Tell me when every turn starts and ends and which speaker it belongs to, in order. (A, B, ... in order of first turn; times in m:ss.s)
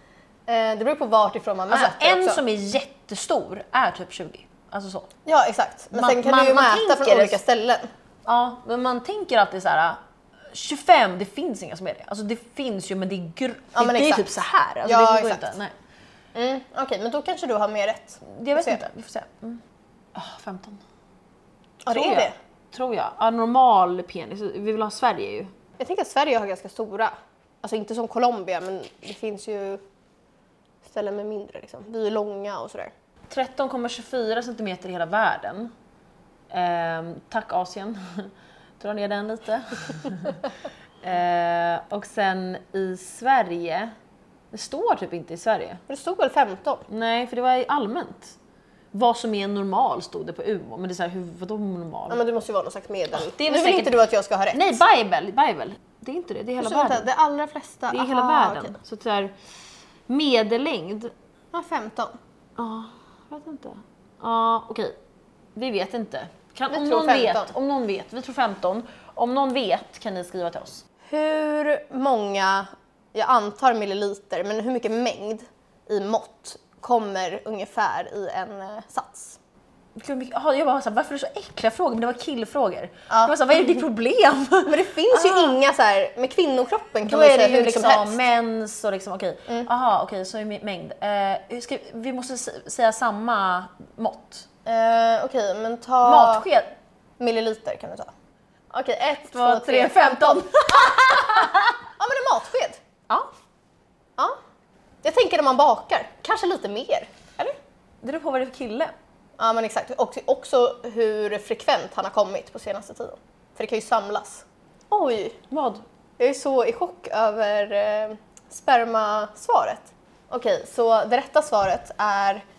0:00.5-0:02.4 A
0:01.7-0:05.1 B
0:05.2-0:07.9 A
0:05.9-0:07.4 B
0:08.2-0:10.0 B
0:10.5-0:15.7 B
0:13.7-0:15.5 A
0:16.3-0:18.8 A
0:18.2-0:19.6 B
0:20.1-0:20.8 B
0:21.8-0:22.3 A
0:21.9-0:25.5 B
0:25.8-0:29.8 A
0:30.8-0:32.9 A
0:33.3-0:35.7 B
0:36.5-0:40.4 B
0:41.0-0:43.9 B
0:44.5-0:45.8 B
0:45.9-0:46.8 A
0:46.9-0:48.4 B
0:48.9-0:52.2 B
0:52.1-0:54.8 A
0:53.1-0:54.0 B
0:54.5-0:57.1 B
0:56.6-0:58.8 A
0:57.9-0:59.3 B
1:00.1-1:01.1 B
1:01.5-1:02.2 A
1:02.6-1:05.0 B
1:05.6-1:10.8 B
1:06.7-1:07.5 A
1:11.0-1:19.4 A
1:20.0-1:25.5 B
1:23.1-1:23.4 A
1:24.6-1:28.2 A
1:27.0-1:34.5 B
1:34.6-1:36.5 A
1:36.0-1:36.7 B
1:37.2-1:38.1 A
1:38.7-1:42.8 A
1:39.3-1:41.8 B
1:45.0-1:47.6 A
1:48.0-1:48.9 B
1:49.4-1:55.4 A
1:55.5-1:55.8 B
1:56.2-2:02.4 A